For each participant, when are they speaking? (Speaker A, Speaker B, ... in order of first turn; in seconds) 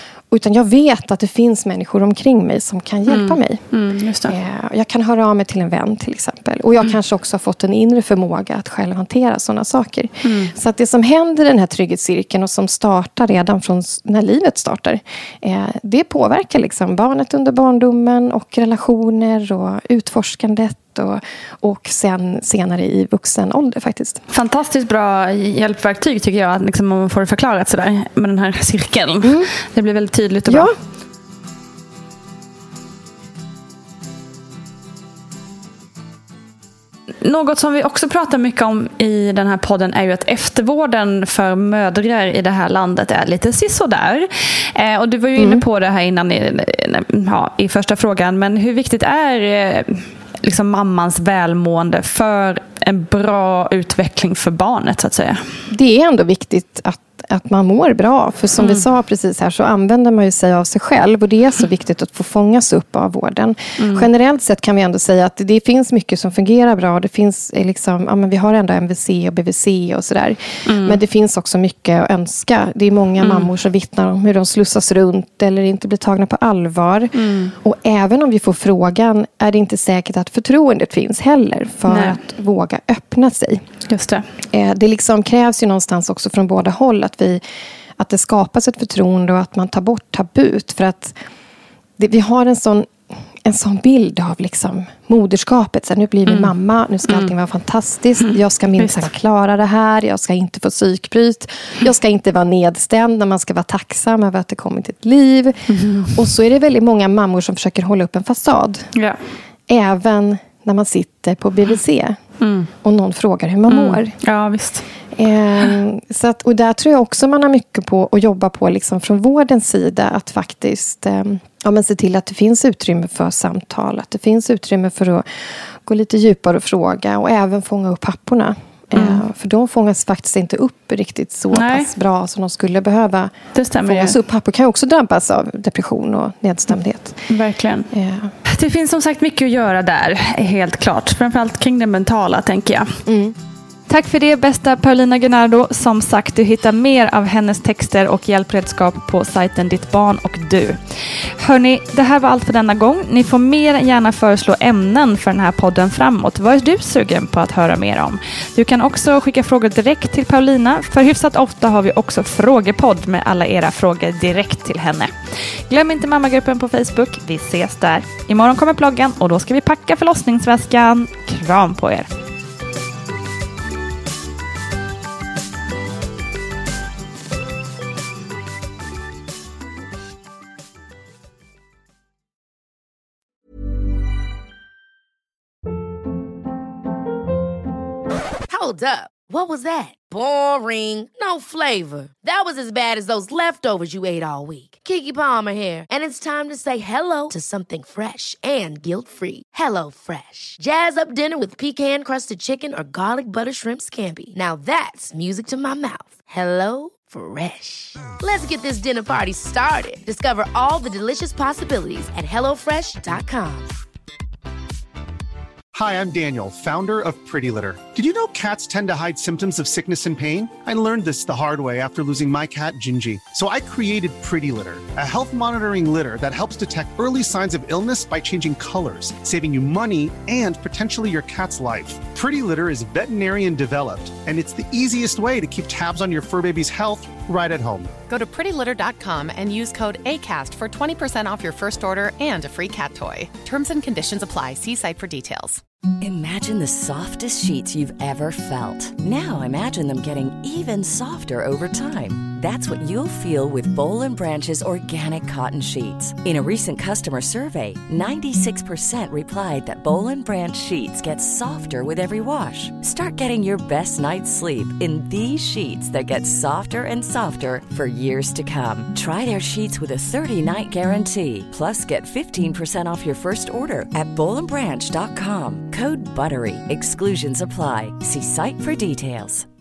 Speaker A: 0.3-3.7, 4.2-24.2, 29.2-29.5, 30.5-30.7, 45.4-45.6, 55.7-83.6, 84.5-87.4, 88.0-91.2, 92.0-92.9, 93.5-105.6, 106.1-108.9, 109.7-112.2, 112.8-114.2, 115.2-125.2, 125.8-133.3, 133.8-137.2, 137.9-138.3, 143.1-143.3
Speaker B: 3.1-4.4, 10.2-10.5, 24.3-30.7, 37.2-55.4, 58.6-58.8, 63.8-64.1, 70.7-71.0, 73.2-73.5, 77.2-77.5, 81.9-82.2, 83.9-84.2, 96.3-96.5, 98.2-99.1, 105.7-106.2, 112.4-112.7, 113.7-114.9, 128.9-129.2, 131.5-131.9, 133.5-134.2, 137.3-137.9, 138.6-142.8, 143.9-150.8, 151.4-165.1, 165.7-172.1
Speaker C: 188.5-213.7
Speaker D: 215.7-237.9
Speaker E: 238.1-245.6
Speaker F: 246.0-279.5